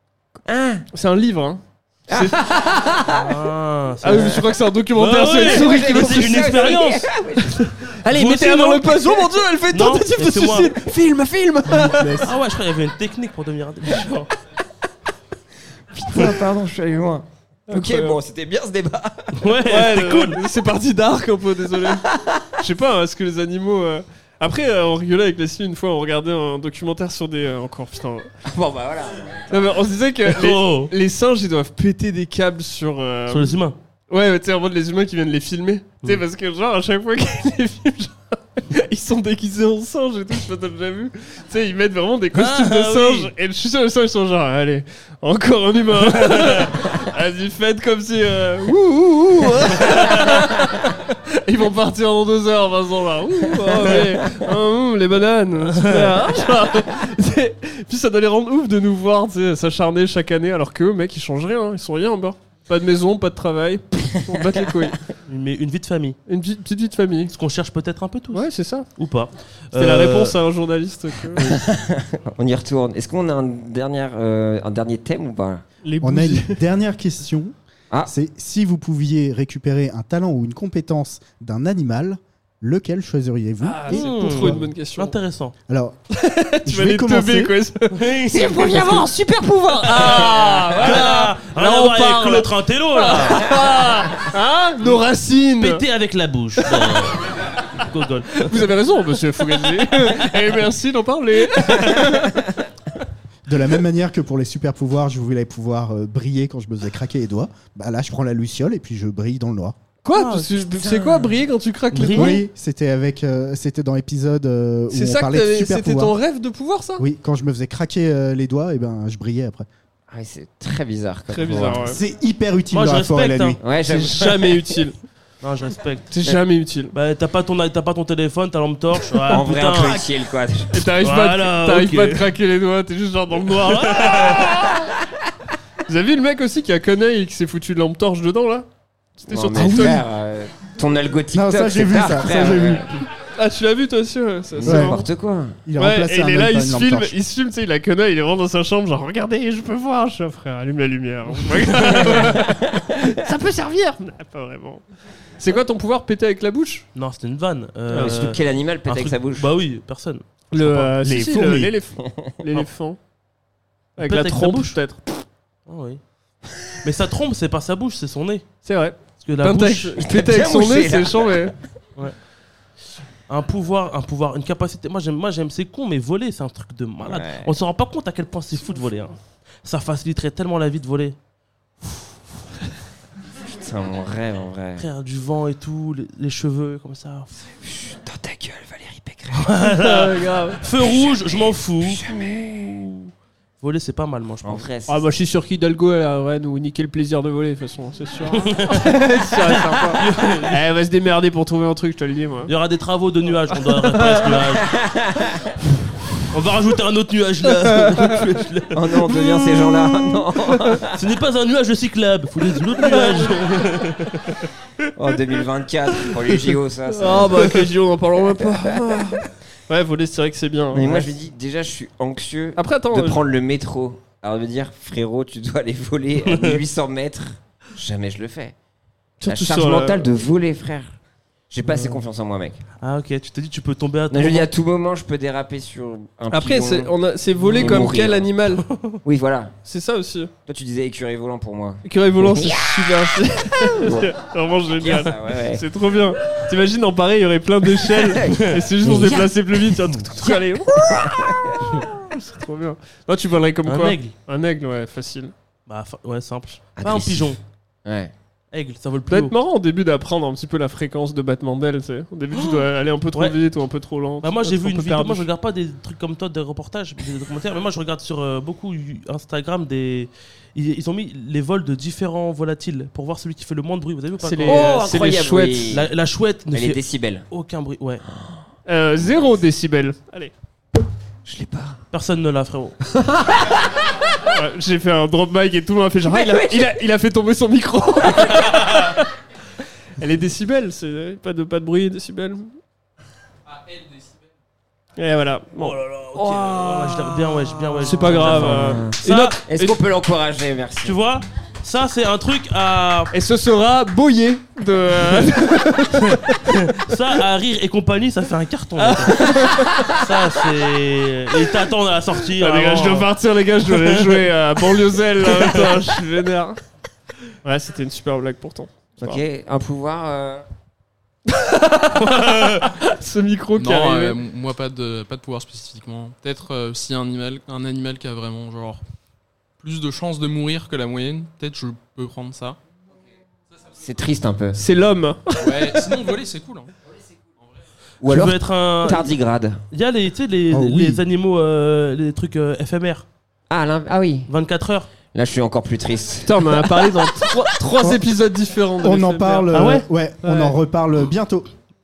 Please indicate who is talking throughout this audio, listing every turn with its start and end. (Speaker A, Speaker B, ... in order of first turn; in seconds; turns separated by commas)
Speaker A: 0.5-0.8, Speaker B: 0.9-2.6, Speaker A: 2.1-3.2, Speaker C: 3.1-4.4, Speaker B: 4.0-6.6, Speaker C: 5.0-7.1, Speaker A: 5.3-7.6, Speaker B: 7.5-12.3, Speaker C: 8.1-9.1, Speaker C: 9.7-10.7, Speaker C: 11.9-14.1, Speaker B: 13.9-14.3, Speaker A: 15.9-19.4, Speaker B: 17.7-18.2, Speaker C: 19.4-20.4, Speaker B: 19.6-22.0, Speaker A: 22.1-22.4, Speaker B: 22.6-28.3, Speaker A: 28.4-29.7, Speaker B: 29.5-33.6, Speaker C: 30.3-30.9, Speaker C: 33.3-33.8, Speaker B: 34.1-65.0, Speaker C: 42.3-43.3, Speaker C: 46.0-46.7, Speaker C: 49.8-50.2, Speaker A: 53.7-54.1, Speaker C: 55.7-56.2, Speaker C: 65.3-66.2, Speaker B: 66.3-67.3, Speaker C: 67.3-68.5, Speaker B: 68.3-68.9, Speaker C: 69.0-70.4, Speaker B: 69.7-71.6, Speaker A: 71.4-75.6, Speaker B: 75.8-76.6, Speaker D: 76.0-77.5, Speaker D: 78.0-84.7, Speaker B: 83.6-85.2, Speaker C: 83.9-85.6, Speaker D: 85.7-86.0, Speaker B: 86.2-95.8, Speaker D: 86.7-87.5, Speaker C: 87.9-88.8, Speaker A: 88.4-90.7, Speaker C: 90.7-93.5, Speaker C: 95.6-98.6, Speaker B: 98.4-102.4, Speaker D: 103.5-109.8, Speaker B: 110.0-112.5, Speaker C: 110.1-110.5, Speaker A: 110.7-111.4, Speaker C: 111.9-112.4, Speaker D: 112.1-116.2, Speaker B: 114.9-117.0, Speaker D: 117.0-119.7, Speaker A: 120.1-121.9, Speaker B: 121.3-122.0, Speaker D: 121.8-123.6, Speaker C: 122.7-123.6, Speaker A: 123.6-124.6, Speaker B: 123.8-125.0, Speaker C: 125.4-126.1, Speaker B: 126.1-126.9, Speaker C: 126.9-130.0, Speaker A: 129.3-130.7, Speaker B: 130.7-134.7, Speaker C: 131.0-132.3, Speaker C: 133.6-134.4, Speaker B: 135.9-140.0, Speaker A: 139.3-143.0, Speaker D: 139.6-140.0, Speaker D: 141.3-143.0, Speaker B: 143.4-145.1, Speaker A: 144.6-145.6, Speaker D: 144.7-144.9, Speaker D: 145.7-147.1, Speaker B: 145.8-154.8, Speaker C: 151.5-152.3, Speaker A: 152.3-152.9, Speaker B: 155.4-156.9, Speaker C: 156.9-160.8, Speaker A: 157.9-159.5, Speaker B: 157.9-158.3, Speaker B: 160.5-163.0, Speaker D: 160.8-161.7, Speaker A: 162.0-162.3, Speaker B: 164.0-165.0, Speaker C: 164.0-164.8, Speaker C: 165.7-166.0, Speaker C: 166.8-168.5, Speaker B: 168.6-171.5, Speaker C: 169.2-170.0, Speaker A: 170.0-171.5, Speaker C: 173.3-181.2, Speaker A: 177.1-177.5, Speaker A: 183.6-184.8, Speaker C: 184.8-187.3, Speaker A: 187.6-189.6, Speaker C: 189.3-192.0, Speaker B: 189.7-190.6, Speaker A: 190.8-193.1, Speaker C: 193.6-194.7, Speaker A: 194.4-195.1, Speaker B: 194.9-202.5, Speaker C: 198.3-198.9, Speaker C: 199.9-200.6, Speaker C: 202.5-204.7, Speaker B: 203.5-203.8, Speaker A: 204.6-205.5, Speaker C: 206.3-208.8, Speaker A: 208.7-211.0, Speaker B: 210.5-210.8, Speaker C: 210.9-214.4, Speaker B: 212.8-213.4, Speaker A: 215.0-217.6, Speaker B: 216.9-221.2, Speaker A: 218.4-219.0, Speaker A: 220.7-228.5, Speaker B: 222.6-223.2, Speaker C: 226.2-226.6, Speaker B: 229.2-230.1, Speaker A: 229.3-230.9, Speaker A: 231.5-232.6, Speaker C: 231.7-232.0, Speaker C: 232.8-234.5, Speaker A: 234.1-236.9, Speaker B: 236.3-238.7, Speaker C: 237.4-237.9, Speaker A: 237.5-238.3, Speaker C: 238.7-239.0, Speaker A: 239.0-239.5, Speaker B: 239.7-240.3, Speaker A: 240.5-242.7, Speaker B: 241.8-251.3, Speaker A: 243.8-244.1, Speaker A: 244.8-245.7, Speaker A: 248.0-251.7, Speaker C: 248.3-248.6, Speaker B: 252.0-255.3, Speaker C: 253.7-254.2, Speaker C: 255.7-257.4, Speaker A: 256.8-258.1, Speaker C: 258.5-259.4, Speaker B: 259.1-265.3, Speaker C: 262.3-263.4, Speaker C: 264.2-274.8, Speaker B: 274.2-275.8, Speaker A: 274.4-275.9, Speaker C: 275.7-278.0, Speaker A: 276.5-277.2, Speaker B: 278.7-280.3, Speaker A: 281.2-281.8, Speaker C: 281.9-282.8, Speaker A: 282.9-283.7, Speaker B: 284.2-289.1, Speaker A: 286.1-286.7, Speaker B: 290.0-292.6, Speaker B: 295.0-295.8, Speaker C: 295.6-299.4, Speaker A: 296.1-297.3, Speaker B: 297.8-299.8, Speaker A: 297.9-301.0, Speaker C: 300.8-303.1, Speaker B: 303.1-306.7, Speaker C: 306.0-309.2, Speaker B: 308.8-309.9, Speaker C: 309.9-313.1, Speaker B: 312.3-316.6, Speaker C: 313.7-314.2, Speaker C: 315.3-315.7, Speaker B: 317.4-319.2, Speaker A: 319.0-320.4, Speaker B: 321.3-324.2, Speaker C: 322.1-322.6, Speaker E: 323.6-328.8, Speaker E: 329.6-332.6, Speaker A: 333.8-334.6, Speaker B: 334.6-335.8, Speaker E: 335.4-336.7, Speaker A: 338.0-339.6, Speaker C: 338.1-339.1, Speaker C: 339.7-343.1, Speaker D: 340.5-341.0, Speaker A: 343.5-344.3, Speaker C: 344.3-344.9, Speaker A: 345.1-346.4, Speaker B: 346.3-349.5, Speaker D: 348.8-351.5, Speaker C: 349.5-349.9, Speaker B: 350.2-350.6